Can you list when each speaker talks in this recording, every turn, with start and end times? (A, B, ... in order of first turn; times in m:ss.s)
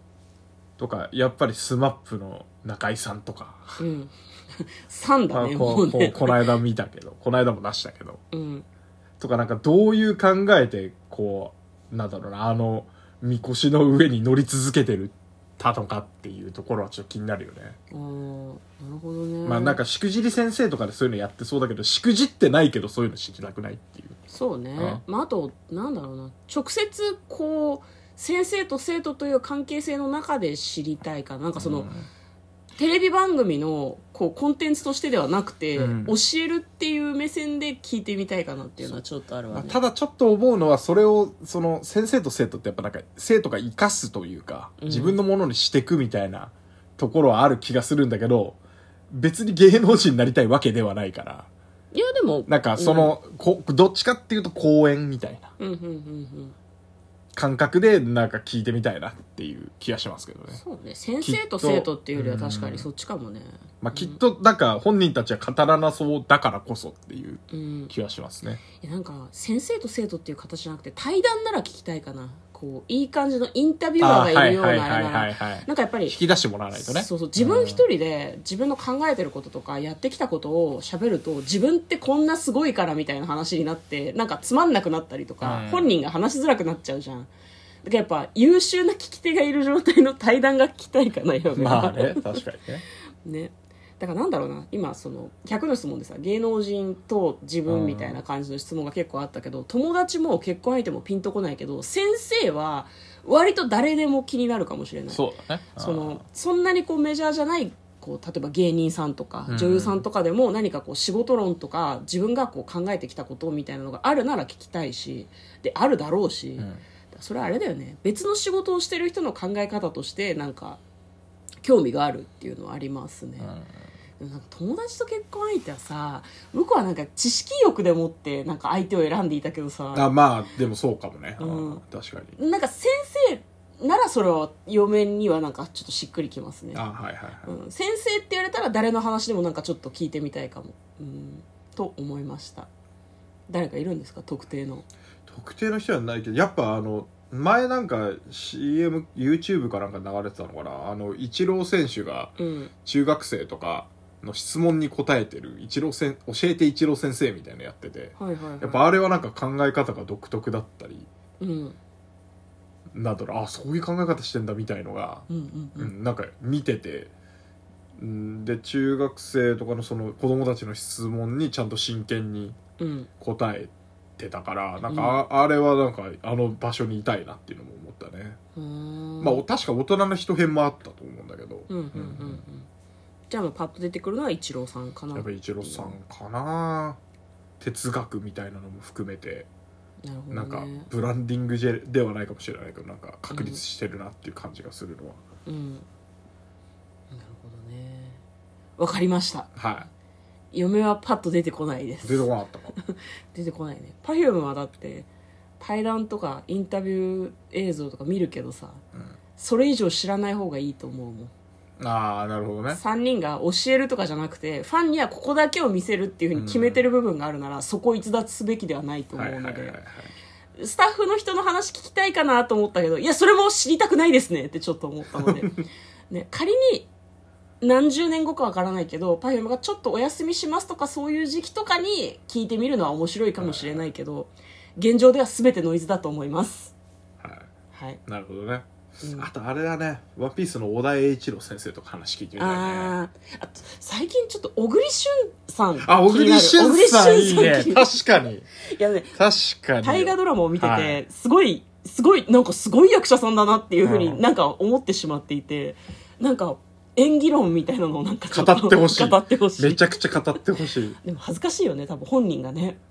0:00.8-0:03.8 A
0:03.8-0:06.5 B
0:05.3-0:08.2 A
0:08.3-0:08.6 B
0:09.2-0:17.8 A
0:17.9-0:19.8 B
0:19.4-0:24.2 A
0:24.3-0:31.9 B
0:31.6-0:32.1 A
0:32.8-0:39.8 B
0:35.8-0:36.2 A
0:39.5-0:48.6 A
0:44.8-0:45.2 B
0:49.1-0:51.5 A
0:51.9-0:53.1 B
0:52.5-0:55.5 A
0:55.6-0:56.5 B
0:57.4-1:00.6 A
1:00.5-1:04.2 B
1:01.2-1:02.9 A
1:03.8-1:08.6 A
1:07.5-1:07.9 B
1:08.8-1:16.2 B
1:14.0-1:17.8 A
1:16.7-1:27.3 B
1:25.4-1:25.9 A
1:27.8-1:32.4 B
1:31.5-1:32.8 A
1:33.2-2:00.8 B
1:37.7-1:38.2 A
1:45.1-1:46.2 A
1:49.5-1:50.0 A
2:01.6-2:03.5 B
2:03.4-2:03.7 A
2:04.2-2:10.1 B
2:09.9-2:12.3 A
2:11.4-2:11.8 B
2:12.4-2:16.8 B
2:16.7-2:17.5 A
2:17.4-2:22.7 B
2:23.5-2:24.8 B
2:25.3-2:41.1 A
2:32.4-2:32.7 B
2:38.2-2:38.8 B
2:41.4-2:41.8 B
2:42.9-2:47.1 A
2:45.3-2:45.9 B
2:48.0-2:52.6 A
2:52.8-2:53.1 B
2:53.2-2:58.4 A
2:54.8-2:55.2 B
2:58.6-2:59.4 B
2:59.2-3:02.4 A
3:01.7-3:02.7 B
3:03.3-3:06.0 B
3:05.1-3:07.0 A
3:07.6-3:09.5 A
3:10.0-3:10.9 B
3:10.3-3:15.2 A
3:13.3-3:13.6 B
3:15.4-3:15.8 B
3:17.1-3:18.2 B
3:18.8-3:19.6 B
3:19.5-3:19.9 A
3:20.5-3:25.1 B
3:22.0-3:22.7 A
3:25.6-3:28.8 B
3:29.4-3:31.3 B
3:31.8-3:32.8 A
3:32.7-3:39.8 B
3:36.3-3:36.8 A
3:39.1-3:40.1 A
3:40.6-3:45.6 B
3:46.1-3:46.9 B
3:47.6-3:56.7 B
3:53.4-3:53.9 A
3:57.2-3:57.5 A
3:57.7-3:58.0 B
3:58.0-4:03.0 A
3:59.0-3:59.3 B
4:02.4-4:08.0 B
4:05.8-4:08.5 A
4:08.7-4:09.2 B
4:09.1-4:11.0 A
4:09.8-4:20.1 B
4:13.8-4:14.2 A
4:18.3-4:21.0 A
4:21.0-4:22.8 B